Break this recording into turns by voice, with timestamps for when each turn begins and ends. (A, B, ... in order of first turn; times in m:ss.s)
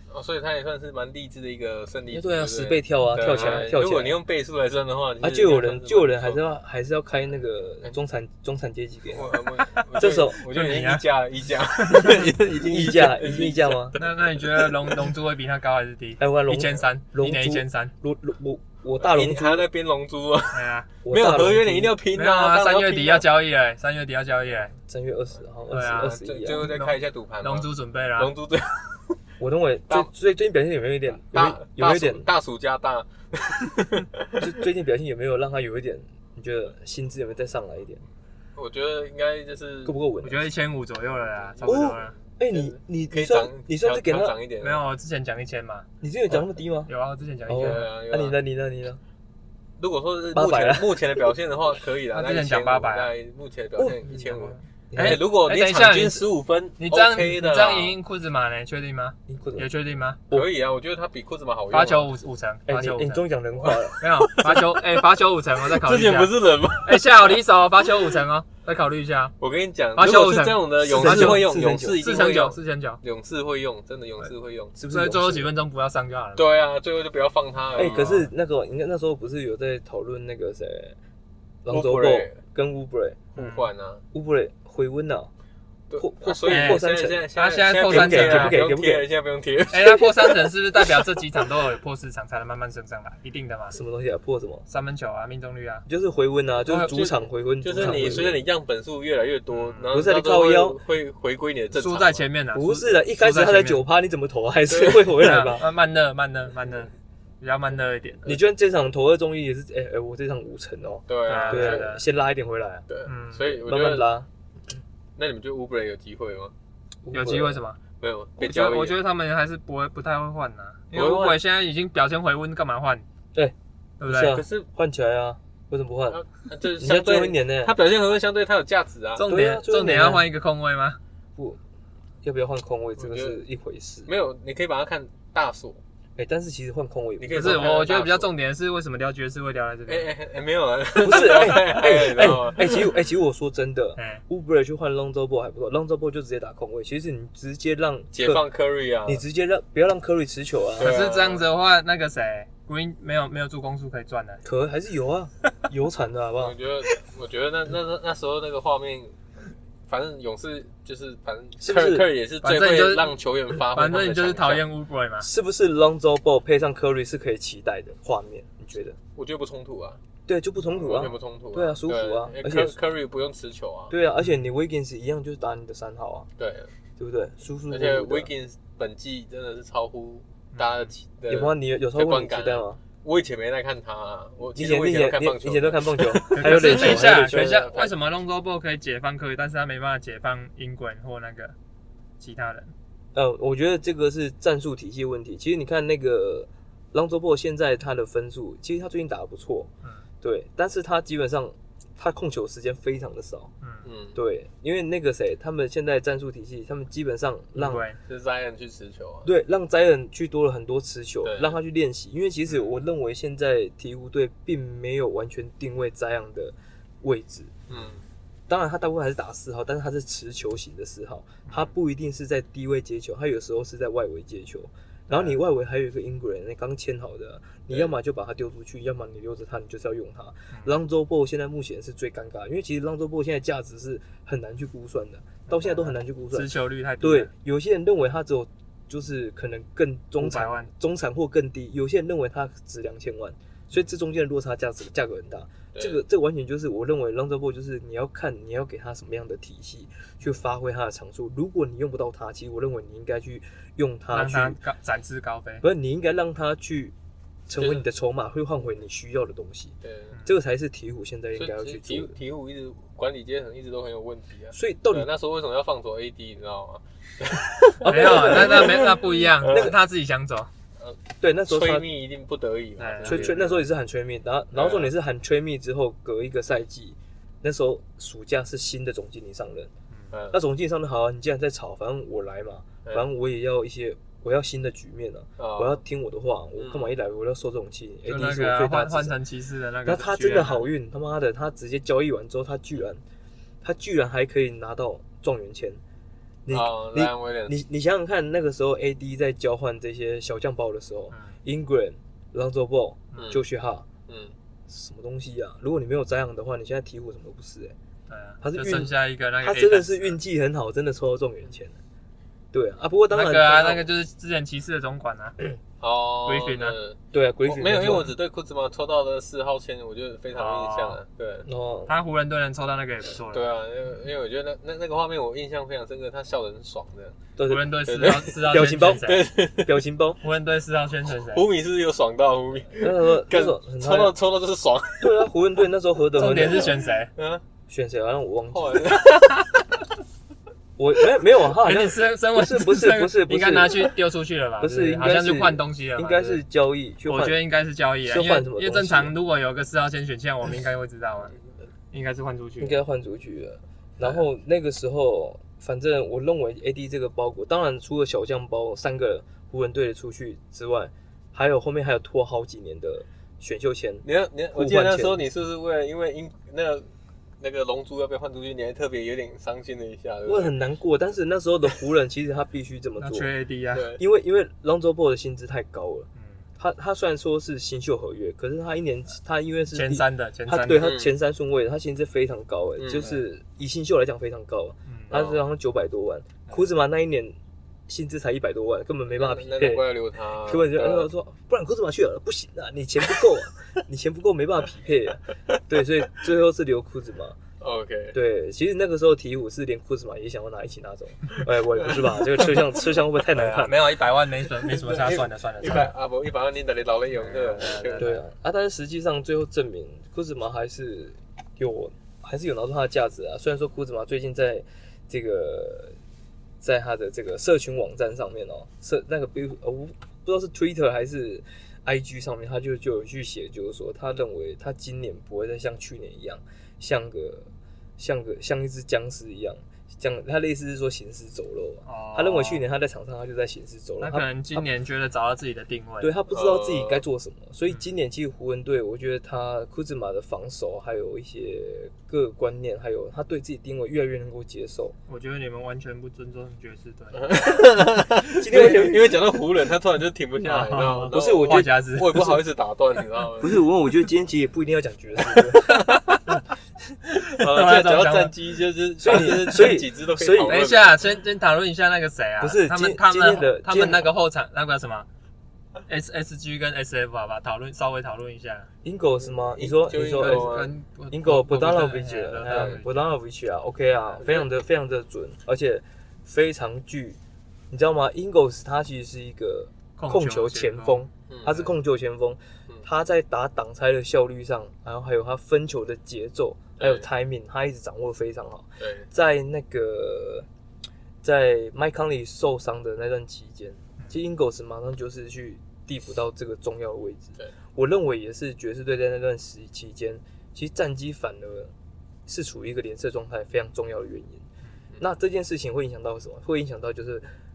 0:00.1-0:06.4 A
0:02.1-0:04.2 B
0:03.3-0:03.6 C
0:05.2-0:09.4 B
0:09.1-0:15.1 A
0:10.0-0:10.4 B
0:10.3-0:11.0 C
0:11.8-0:12.3 C
0:12.6-0:14.0 B
0:14.0-0:17.9 C
0:16.2-0:19.6 B
0:19.0-0:23.3 A
0:20.5-0:20.9 C
0:21.0-0:22.0 B
0:22.1-0:24.8 C
0:24.9-0:26.7 B
0:25.7-0:28.3 C
0:25.7-0:29.2 A
0:29.4-0:32.3 B
0:31.3-0:34.4 A
0:34.4-0:38.0 B
0:38.6-0:40.0 A
0:39.8-0:40.5 B
0:40.2-0:42.2 C
0:41.4-0:41.9 A
0:41.6-0:44.4 B
0:42.4-0:44.8 A
0:44.6-0:45.9 C
0:46.0-0:46.9 B
0:46.9-0:47.9 C
0:47.5-0:49.0 B
0:47.5-0:48.4 A
0:49.8-0:58.0 A
0:50.3-0:51.3 B
0:52.1-0:53.1 C
0:54.1-1:00.2 C
0:54.9-0:55.2 B
0:59.3-0:59.7 B
1:00.3-1:02.1 A
1:01.7-1:03.2 C
1:02.7-1:04.0 B
1:03.6-1:05.1 A
1:04.0-1:09.4 C
1:05.6-1:07.3 A
1:09.4-1:14.8 A
1:10.0-1:13.0 C
1:10.8-1:12.1 B
1:14.8-1:15.5 B
1:14.9-1:16.5 C
1:16.4-1:18.3 A
1:17.8-1:21.0 B
1:21.6-1:23.3 B
1:21.7-1:22.4 A
1:23.4-1:23.7 C
1:23.4-1:24.0 A
1:24.1-1:25.3 B
1:25.9-1:31.1 A
1:26.0-1:27.2 B
1:26.5-1:26.8 C
1:27.4-1:28.6 C
1:27.9-1:29.1 B
1:29.7-1:33.8 C
1:33.7-1:34.7 B
1:34.7-1:35.9 C
1:35.9-1:38.4 B
1:36.6-1:37.0 C
1:36.9-1:42.2 A
1:37.8-1:38.2 C
1:39.5-1:40.0 C
1:39.9-1:40.8 B
1:41.7-1:43.8 C
1:42.5-1:45.7 B
1:44.7-1:45.1 A
1:45.1-1:48.4 C
1:48.2-1:52.9 B
1:51.1-1:51.9 A
1:51.3-1:52.0 C
1:52.9-1:54.1 A
1:53.1-1:53.5 C
1:53.5-1:54.3 B
1:55.2-1:56.5 A
1:57.0-1:57.6 B
1:57.1-1:57.8 C
1:58.0-1:59.0 A
1:58.4-2:03.0 C
2:00.9-2:01.4 A
2:03.4-2:06.2 B
2:04.0-2:04.4 C
2:04.2-2:04.7 A
2:06.1-2:09.3 A
2:06.8-2:07.7 B
2:09.2-2:11.0 C
2:09.3-2:10.3 B
2:12.2-2:14.1 B
2:13.0-2:13.4 A
2:14.1-2:15.8 A
2:16.2-2:17.8 B
2:17.2-2:18.3 A
2:17.3-2:20.1 C
2:19.9-2:22.9 A
2:21.0-2:28.4 B
2:22.2-2:22.5 C
2:24.0-2:24.2 C
2:28.1-2:29.2 A
2:29.1-2:31.0 B
2:30.8-2:31.4 A
2:30.8-2:34.4 C
2:34.4-2:36.6 B
2:36.4-2:39.2 A
2:39.9-2:44.6 A
2:41.6-2:42.1 B
2:42.4-2:43.2 C
2:43.7-2:45.3 C
2:45.2-2:49.0 B
2:49.2-2:50.0 A
2:50.3-2:52.8 B
2:50.6-2:53.9 A
2:53.9-2:56.3 B
2:54.2-2:54.4 C
2:56.4-2:56.7 A
2:57.0-2:58.3 B
2:57.7-3:07.9 A
3:00.5-3:00.9 C
3:01.3-3:02.8 B
3:04.6-3:07.6 B
3:06.3-3:11.6 C
3:12.2-3:12.7 C
3:13.2-3:19.7 B
3:20.2-3:23.5 B
3:23.6-3:23.9 C
3:23.8-3:24.2 A
3:24.2-3:27.9 B
3:27.6-3:28.0 C
3:28.0-3:29.3 A
3:29.2-3:37.6 B
3:31.2-3:31.6 A
3:37.7-3:38.0 A
3:38.5-4:14.6 B
3:41.5-3:41.7 C
3:55.5-3:57.3 C
4:00.2-4:00.7 C
4:05.7-4:06.0 A
4:14.1-4:15.6 C
4:15.6-4:17.0 B
4:17.5-4:22.2 B
4:17.6-4:17.8 A
4:19.8-4:20.1 A
4:21.4-4:29.7 A
4:24.5-4:25.1 B
4:27.8-4:30.5 C
4:27.9-4:28.5 B
4:29.5-4:29.8 B
4:30.8-4:33.6 A
4:31.2-4:31.9 B
4:32.8-4:33.4 C
4:33.0-4:39.7 B
4:34.5-4:34.9 A
4:40.1-4:40.4 A
4:40.3-4:49.2 B
4:45.4-4:45.8 A
4:46.6-4:46.9 A
4:48.1-4:50.7 C
4:49.8-4:53.0 B
4:53.6-4:55.8 B
4:56.4-5:03.9 B
4:56.5-4:57.6 A
5:01.1-5:01.4 C
5:03.2-5:03.4 A
5:04.1-5:04.3 A
5:04.7-5:07.8 B
5:08.1-5:10.2 C
5:08.4-5:11.8 B
5:12.5-5:13.8 B
5:13.1-5:15.4 C
5:15.8-5:21.5 A
5:16.3-5:16.8 C
5:17.1-5:18.1 B
5:20.3-5:21.0 C
5:21.5-5:21.9 B
5:21.9-5:23.5 C
5:23.3-5:27.2 A
5:27.4-5:30.2 B
5:27.4-5:29.3 C
5:27.8-5:29.7 A
5:30.2-5:31.5 C
5:31.3-5:35.3 A
5:32.8-5:34.1 B
5:35.0-5:36.8 B
5:36.2-5:37.1 C
5:37.2-5:37.4 A
5:37.7-5:38.9 B
5:38.5-5:39.4 A
5:40.8-5:43.8 B
5:41.5-5:46.4 C
5:44.6-5:47.4 B
5:47.1-5:51.4 C
5:48.0-5:49.1 B
5:51.9-5:52.8 C
5:52.6-6:05.2 B
6:04.0-6:06.9 A
6:07.4-6:10.6 A
6:10.2-6:13.3 B
6:13.0-6:13.9 C
6:13.7-6:14.0 A
6:14.0-6:27.4 B
6:16.2-6:16.4 C
6:19.7-6:21.0 C
6:20.8-6:21.1 A
6:22.8-6:23.2 A
6:24.9-6:25.2 C
6:25.1-6:25.4 A
6:27.9-6:29.8 B
6:29.2-6:31.1 A
6:30.4-6:37.4 B
6:37.6-6:38.2 A
6:38.1-6:43.9 B
6:41.8-6:42.4 A
6:43.3-6:45.9 C
6:43.4-6:43.7 A
6:44.6-6:48.2 A
6:47.1-6:48.2 C
6:48.0-6:56.0 B
6:56.6-7:14.7 B
7:11.9-7:12.6 C
7:14.0-7:16.2 C
7:16.0-7:25.0 B
7:16.3-7:17.0 A
7:25.1-7:27.6 C
7:27.1-7:33.6 A
7:28.4-7:29.1 B
7:28.6-7:28.9 C
7:30.4-7:32.4 C
7:31.1-7:32.2 B
7:33.4-7:36.0 B
7:35.6-7:36.4 C
7:37.0-7:38.3 C
7:37.4-7:38.3 B
7:37.5-7:41.0 A
7:39.0-7:40.7 B
7:40.5-7:45.1 C
7:42.4-7:44.1 B
7:45.9-7:48.7 C
7:48.8-7:57.2 B
7:49.6-7:50.7 A
7:50.2-7:52.9 C
7:54.2-7:54.5 A
7:57.7-8:10.5 B
8:00.0-8:01.0 C
8:01.3-8:01.7 A
8:06.8-8:07.1 A
8:08.8-8:09.1 A
8:11.2-8:21.7 B
8:22.3-8:24.5 B
8:25.0-8:27.3 B